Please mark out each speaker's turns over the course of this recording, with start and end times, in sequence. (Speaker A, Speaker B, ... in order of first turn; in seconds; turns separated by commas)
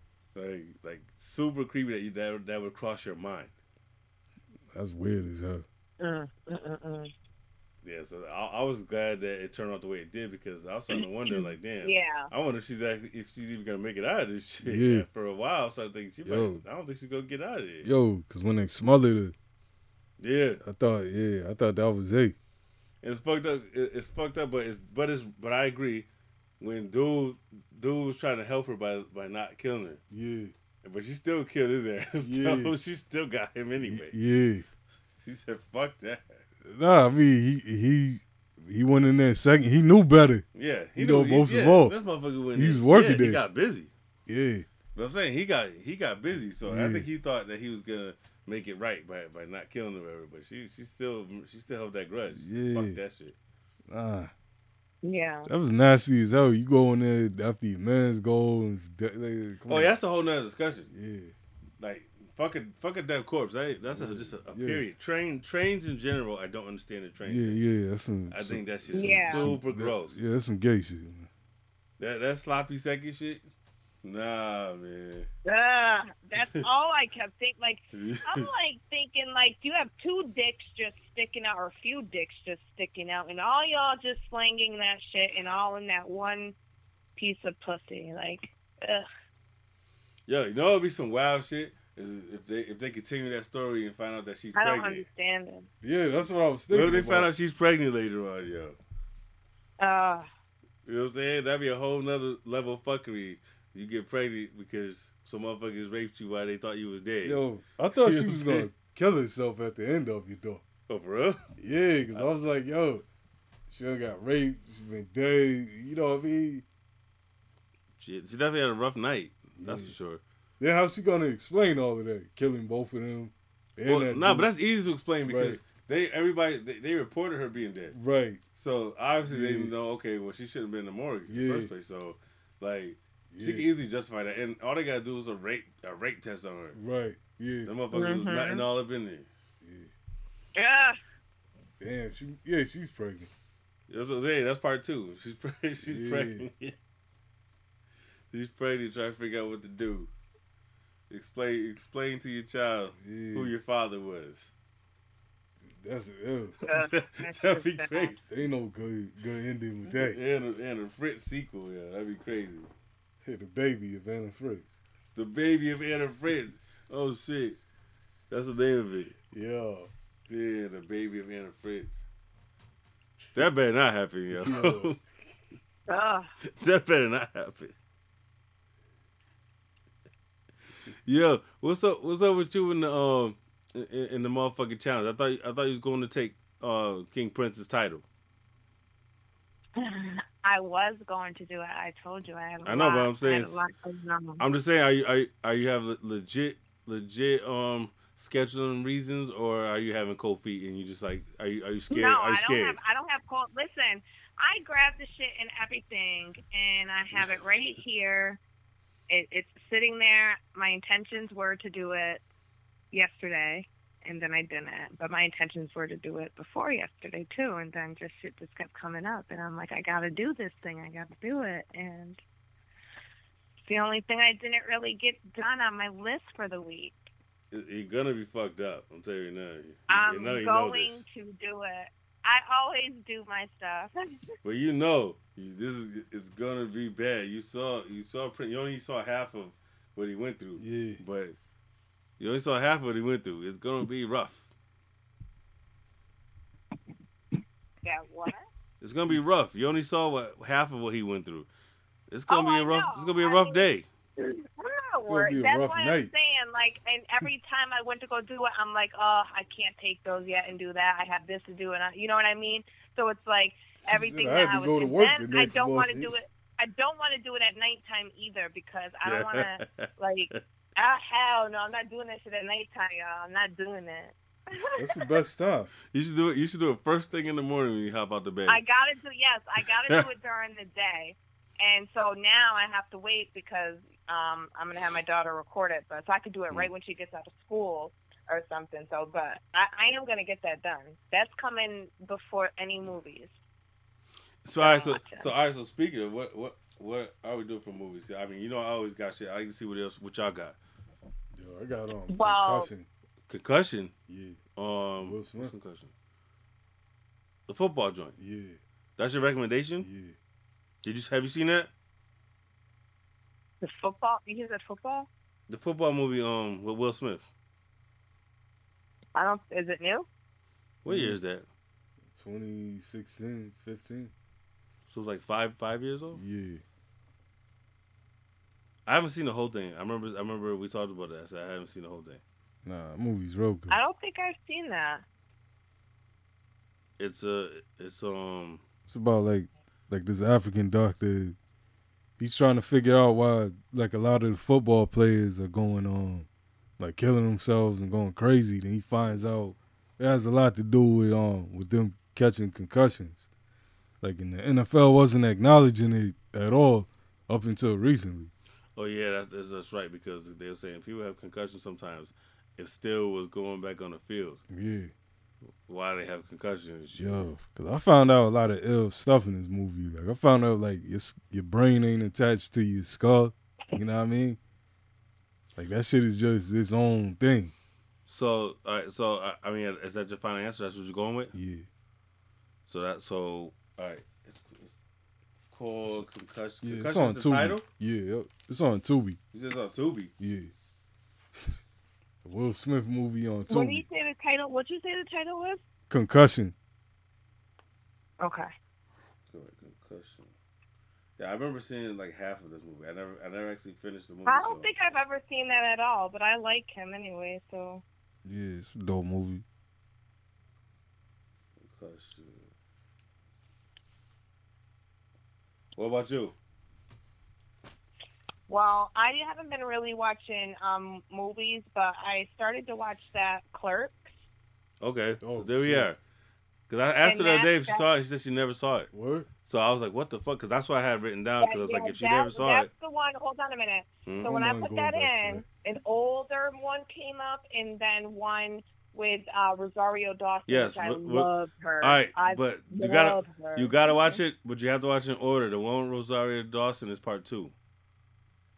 Speaker A: 0.3-3.5, Speaker B: 4.7-5.7, Speaker C: 6.0-7.1, Speaker A: 7.8-17.9, Speaker C: 10.9-12.3, Speaker B: 14.6-15.1, Speaker B: 16.3-16.6, Speaker B: 17.8-19.4, Speaker A: 20.2-20.6, Speaker B: 20.6-22.4, Speaker A: 23.0-26.1, Speaker A: 26.6-30.0, Speaker B: 30.1-30.5, Speaker A: 30.8-34.1, Speaker B: 32.2-32.7, Speaker B: 33.8-34.6, Speaker A: 35.1-36.4, Speaker B: 36.6-40.4, Speaker A: 40.5-43.9, Speaker B: 41.0-41.9, Speaker B: 42.5-43.4, Speaker B: 44.3-44.6, Speaker A: 44.9-53.4, Speaker B: 46.6-47.1, Speaker B: 52.4-53.0, Speaker B: 53.9-54.3, Speaker C: 55.0-55.5, Speaker B: 55.5-59.9, Speaker A: 59.7-60.9, Speaker B: 60.9-61.3, Speaker A: 61.8-67.6, Speaker B: 63.9-64.8, Speaker B: 67.3-71.3, Speaker A: 68.3-70.2, Speaker C: 69.0-69.5, Speaker A: 72.0-73.4, Speaker A: 74.0-75.3, Speaker C: 75.4-86.6, Speaker A: 76.4-76.6, Speaker A: 77.9-78.5, Speaker C: 87.2-89.1, Speaker A: 90.3-95.0, Speaker C: 94.5-95.7, Speaker B: 95.8-97.3, Speaker A: 96.7-98.8, Speaker C: 99.8-100.3, Speaker A: 100.8-108.7, Speaker B: 107.2-110.6, Speaker A: 110.9-111.5, Speaker B: 111.6-113.0, Speaker B: 113.7-116.7, Speaker A: 118.0-120.2, Speaker B: 119.6-119.9, Speaker B: 120.6-124.5, Speaker A: 123.8-127.9, Speaker B: 125.2-125.6, Speaker B: 127.9-128.4, Speaker A: 128.6-136.8, Speaker B: 129.2-129.7, Speaker B: 131.3-131.7, Speaker B: 133.3-133.7, Speaker B: 136.7-137.7, Speaker A: 137.7-139.3, Speaker C: 137.9-138.6, Speaker B: 139.6-139.9, Speaker C: 140.6-141.0, Speaker B: 141.8-143.3, Speaker A: 143.9-146.7, Speaker B: 145.8-146.4, Speaker A: 148.3-150.1, Speaker A: 151.1-154.5, Speaker B: 153.0-153.5, Speaker B: 155.6-156.6, Speaker A: 156.6-158.3, Speaker C: 156.7-158.1, Speaker B: 158.3-160.2, Speaker A: 159.9-162.7, Speaker B: 163.2-164.7, Speaker A: 165.2-167.6, Speaker A: 168.3-169.2, Speaker B: 169.3-169.9, Speaker A: 170.3-172.0, Speaker A: 173.3-175.0, Speaker B: 174.3-174.9, Speaker C: 175.9-176.3, Speaker A: 176.5-177.7, Speaker A: 181.0-188.1, Speaker C: 189.8-194.4, Speaker A: 192.7-193.6, Speaker A: 194.4-202.8, Speaker C: 201.9-208.4, Speaker C: 209.1-212.2, Speaker C: 212.9-222.2, Speaker C: 223.7-227.0, Speaker A: 227.5-231.0, Speaker C: 229.9-233.9, Speaker A: 234.4-241.3, Speaker B: 240.6-241.0, Speaker A: 242.2-244.5, Speaker C: 247.8-248.4, Speaker A: 248.8-251.5, Speaker A: 252.1-253.8, Speaker C: 252.3-275.0, Speaker B: 255.1-256.1, Speaker B: 263.9-266.1, Speaker A: 269.1-270.4, Speaker B: 274.8-275.7, Speaker A: 275.9-278.6, Speaker C: 278.4-293.4, Speaker A: 294.4-300.6, Speaker C: 294.6-295.3, Speaker B: 301.3-302.9, Speaker C: 302.1-302.7, Speaker A: 303.3-303.9, Speaker B: 304.1-304.4, Speaker A: 304.6-305.9, Speaker B: 305.0-305.5, Speaker A: 307.5-308.2, Speaker B: 308.2-308.6, Speaker A: 309.0-309.9, Speaker B: 309.8-310.1, Speaker A: 310.8-311.7, Speaker C: 313.6-315.1, Speaker A: 315.5-317.3, Speaker C: 319.1-320.1, Speaker A: 320.8-321.5, Speaker B: 320.9-321.2, Speaker B: 322.1-324.1, Speaker A: 324.9-326.2, Speaker B: 326.1-326.6, Speaker A: 328.9-332.2, Speaker B: 332.6-333.8, Speaker C: 333.7-335.0, Speaker A: 337.0-338.6, Speaker B: 338.9-341.4, Speaker B: 342.2-346.3, Speaker B: 346.8-353.3, Speaker B: 354.0-358.3, Speaker A: 358.8-364.4, Speaker B: 364.5-364.9, Speaker A: 365.7-367.1, Speaker B: 366.9-374.4, Speaker B: 375.6-377.5, Speaker A: 378.1-381.3, Speaker B: 381.3-381.7, Speaker A: 382.7-384.8, Speaker A: 385.5-387.6, Speaker B: 386.6-389.2, Speaker A: 389.3-390.1, Speaker B: 390.2-390.5, Speaker B: 391.3-391.6, Speaker B: 392.2-393.9, Speaker C: 393.5-395.6, Speaker B: 395.9-396.5, Speaker C: 398.2-398.5, Speaker A: 399.3-400.3, Speaker A: 401.2-404.7, Speaker C: 404.3-407.8, Speaker B: 408.2-409.4, Speaker A: 411.6-412.4, Speaker A: 415.8-416.4, Speaker C: 418.5-424.1, Speaker A: 424.8-426.0, Speaker B: 425.2-425.9, Speaker A: 426.7-428.9, Speaker C: 427.0-427.9, Speaker B: 428.9-429.3, Speaker A: 429.4-432.7, Speaker C: 431.4-444.2, Speaker A: 434.1-434.4, Speaker B: 434.2-435.4, Speaker A: 440.5-441.3, Speaker A: 441.8-447.5